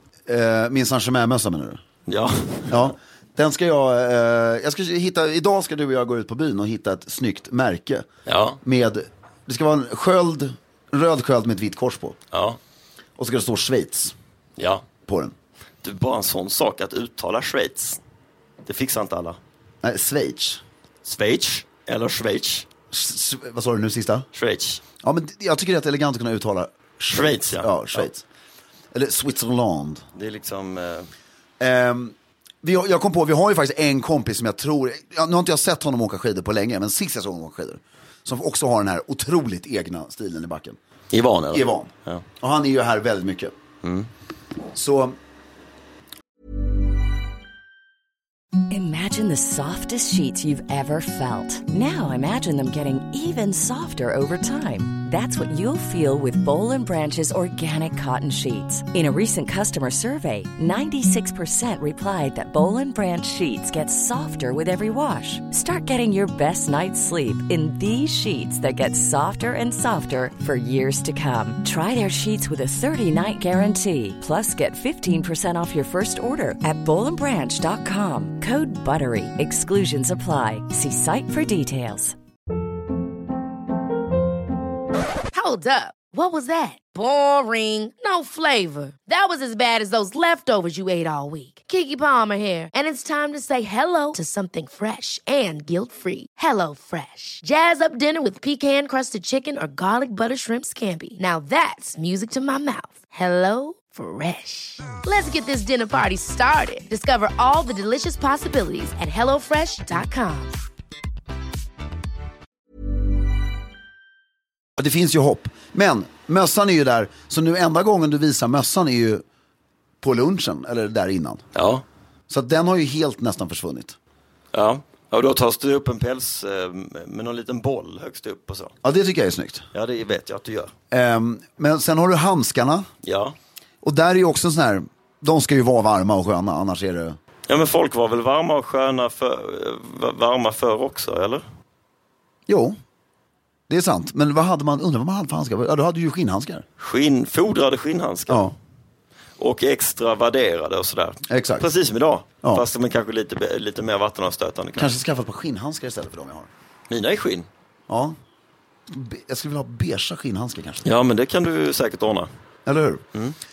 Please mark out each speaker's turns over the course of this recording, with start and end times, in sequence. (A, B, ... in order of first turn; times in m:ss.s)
0:00.3-0:01.8 A
0:02.1-0:02.9 B
0:02.7-0:08.1 A
0:08.3-0:08.6 B
0:08.6-0:12.2 A
0:12.3-0:12.6 B
0:13.2-0:14.1 A
0:14.6-0:14.8 B
0:15.1-0:15.3 A
0:15.8-0:18.0 B
0:18.6-0:19.4 B
0:19.8-0:20.6 A
0:21.0-0:22.7 B
0:22.9-0:24.3 A
0:24.3-0:24.8 B
0:25.0-0:28.2 A
0:27.1-0:28.1 B
0:28.9-0:30.0 A
0:30.2-0:31.1 B
0:31.6-0:40.8 A
0:41.1-0:42.2 B
0:41.5-0:43.5 A
0:43.8-0:44.1 B
0:44.7-0:45.2 A
0:48.7-1:22.2 C
1:25.3-1:50.6 D
1:54.8-1:59.2 A
2:00.0-2:01.4 A
2:01.5-2:01.8 B
2:02.3-2:04.0 A
2:04.5-2:08.7 B
2:08.8-2:09.6 A
2:09.7-2:10.7 B
2:10.9-2:12.9 A
2:13.0-2:13.4 B
2:13.8-2:17.2 A
2:17.5-2:21.4 B
2:22.5-2:22.8 A
2:23.7-2:26.6 A
2:26.8-2:28.5 B
2:28.3-2:28.5 A
2:29.4-2:35.0 B
2:31.3-2:31.7 A
2:34.8-2:36.5 A
2:36.9-2:37.5 B
2:37.9-2:38.2 A
2:38.9-2:40.9 A
2:40.8-2:42.3 B
2:42.7-2:43.0 A